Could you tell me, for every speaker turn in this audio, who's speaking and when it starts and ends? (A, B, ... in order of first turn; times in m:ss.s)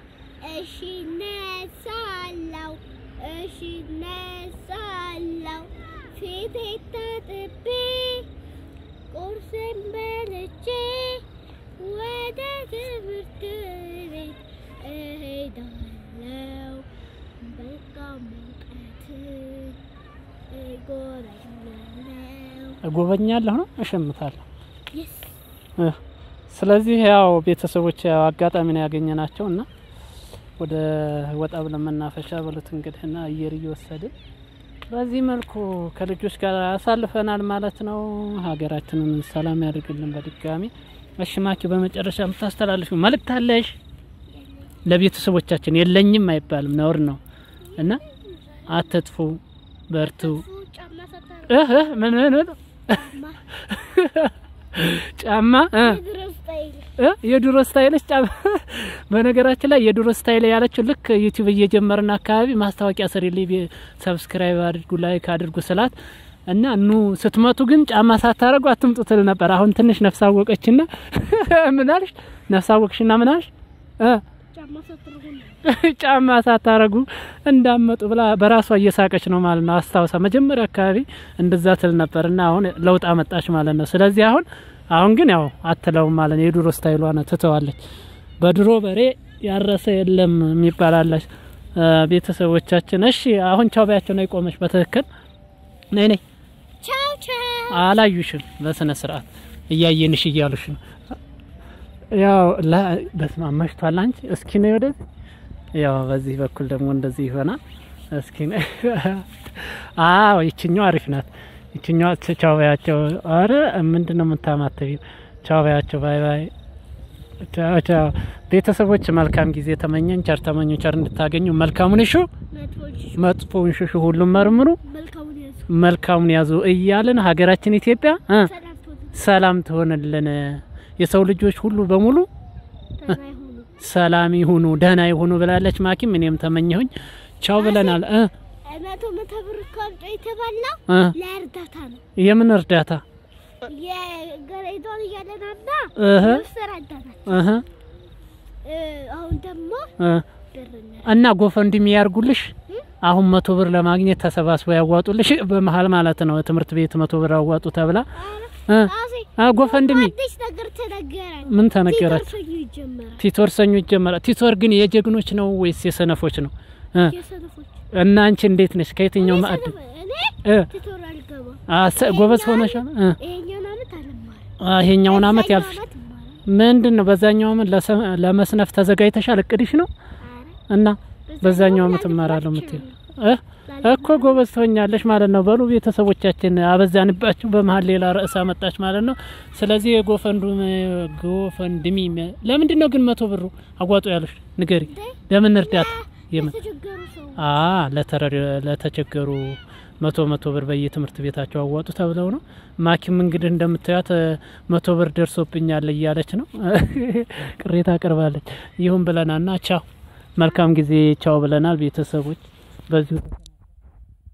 0:00.4-0:08.3 A
0:09.1-0:11.2 A
0:11.8-0:16.9 A
0:17.4-0:19.8 A
0:20.5-0:22.8 A
0:22.8-0:24.4 B
0:24.9-0:25.4 A
0:26.5-0:29.7 B
0:30.6-0:34.1 B
0:34.9-0:43.7 B
0:44.3-0:44.7 A
0:44.8-0:47.2 B
0:47.7-0:48.9 A
0:48.7-0:50.4 B
0:50.0-0:52.0 A
0:51.5-0:53.0 B
0:52.9-0:53.4 A
0:53.6-0:56.0 B
0:55.7-0:56.9 A
0:57.0-1:05.9 B
1:06.5-1:14.2 B
1:14.5-1:15.6 A
1:15.6-1:27.8 B
1:28.4-1:35.1 B
1:35.9-1:36.2 B
1:36.8-1:37.9 A
1:37.7-1:40.8 B
1:42.1-1:45.0 B
1:45.7-1:47.6 B
1:48.1-1:56.5 B
1:57.4-2:02.3 B
2:02.5-2:03.4 A
2:03.2-2:04.8 B
2:04.3-2:05.7 A
2:05.7-2:08.5 B
2:08.4-2:09.2 A
2:09.1-2:12.3 B
2:13.0-2:13.7 A
2:13.8-2:18.3 B
2:17.5-2:18.0 A
2:18.6-2:22.0 A
2:20.9-2:21.2 B
2:22.2-2:23.0 B
2:23.6-2:27.5 A
2:26.0-2:26.4 B
2:27.3-2:27.6 B
2:28.6-2:29.9 A
2:30.0-2:30.2 B
2:30.5-2:31.1 A
2:31.0-2:38.0 B
2:38.1-2:43.2 A
2:38.7-2:40.1 B
2:41.4-2:42.3 B
2:43.2-2:47.1 B
2:47.0-2:47.8 A
2:47.9-2:49.7 B
2:49.2-2:54.5 A
2:50.4-2:50.7 B
2:51.7-2:53.2 B
2:54.6-2:55.8 B
2:55.0-2:56.4 A
2:56.4-2:59.9 B
3:00.2-3:00.6 A
3:00.7-3:16.5 B
3:01.3-3:03.0 A
3:03.6-3:04.4 A
3:14.9-3:17.5 A
3:17.4-3:29.8 B
3:30.4-3:33.5 B